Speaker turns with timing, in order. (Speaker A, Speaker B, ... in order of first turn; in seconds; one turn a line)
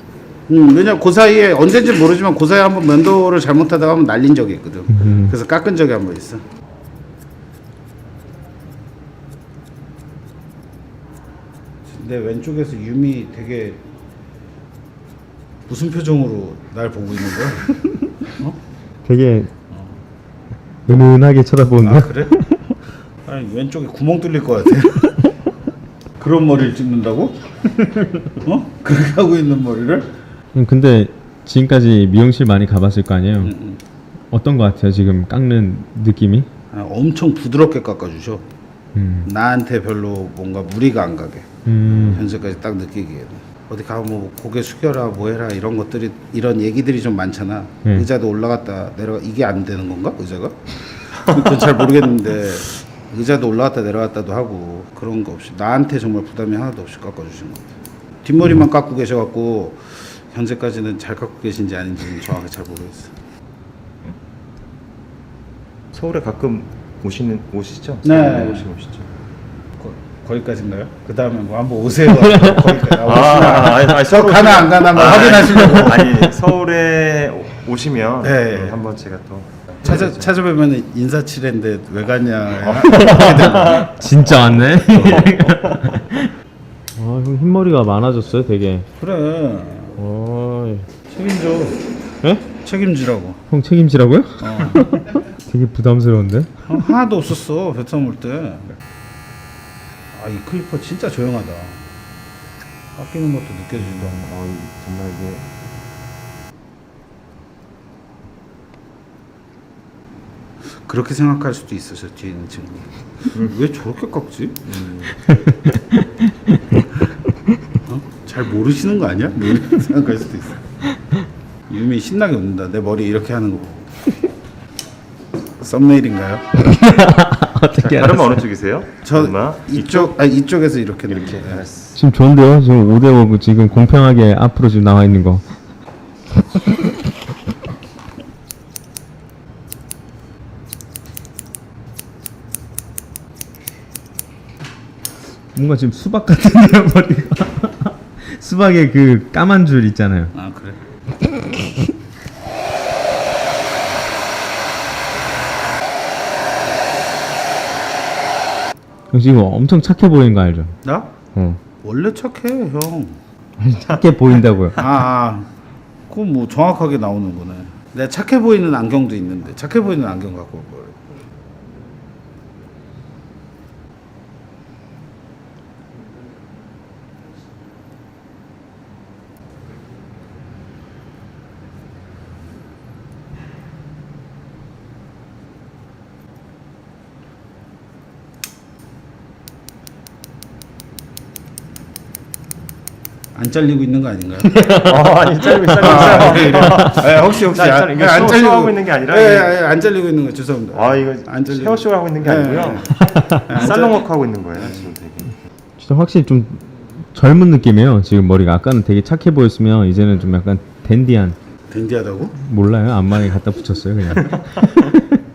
Speaker A: 0.5-6.4
Speaker B: 4.9-5.3
Speaker A: 11.8-13.8
Speaker A: 15.7-17.7
Speaker B: 19.1-19.5
Speaker A: 19.7-20.0
Speaker B: 20.9-22.6
Speaker A: 21.8-22.3
Speaker A: 23.2-25.1
Speaker A: 26.2-27.4
Speaker A: 28.1-30.1
Speaker B: 30.6-33.5
Speaker A: 33.4-33.8
Speaker B: 34.3-36.5
Speaker A: 36.7-38.4
Speaker B: 38.9-39.3
Speaker A: 39.2-57.7
Speaker B: 41.7-42.2
Speaker C: 41.9-42.2
Speaker A: 58.2-63.1
Speaker C: 65.9-69.1
Speaker A: 68.0-68.7
Speaker A: 69.8-76.2
Speaker B: 72.1-73.0
Speaker C: 73.0-80.4
Speaker B: 76.0-76.3
Speaker A: 78.2-78.8
Speaker A: 79.8-83.9
Speaker B: 82.8-86.3
Speaker C: 83.0-86.0
Speaker B: 87.0-88.8
Speaker A: 89.0-90.0
Speaker B: 90.0-90.8
Speaker A: 91.1-91.8
Speaker A: 92.6-93.4
Speaker B: 93.5-96.8
Speaker A: 94.4-95.0
Speaker A: 96.7-98.8
Speaker A: 100.1-101.8
Speaker A: 102.9-104.3
Speaker C: 103.7-105.5
Speaker A: 110.8-114.8
Speaker C: 114.7-115.1
Speaker B: 115.3-116.0
Speaker A: 117.8-120.6
Speaker A: 121.7-123.9
Speaker A: 125.6-126.4
Speaker B: 126.6-128.4
Speaker C: 127.8-130.1
Speaker A: 129.0-131.7
Speaker C: 131.1-132.0
Speaker B: 131.9-135.4
Speaker B: 145.6-150.3
Speaker A: 150.3-150.8
Speaker B: 159.1-160.7
Speaker A: 160.8-161.1
Speaker B: 161.3-161.6
Speaker A: 161.8-163.2
Speaker B: 163.6-164.8
Speaker A: 164.8-165.5
Speaker A: 166.1-171.0
Speaker A: 193.3-194.7
Speaker B: 194.6-194.9
Speaker C: 194.8-199.6
Speaker B: 195.6-196.9
Speaker A: 195.8-204.1
Speaker C: 200.7-205.3
Speaker B: 203.0-203.4
Speaker B: 205.8-211.3
Speaker A: 211.7-212.3
Speaker B: 212.4-215.2
Speaker C: 214.2-214.9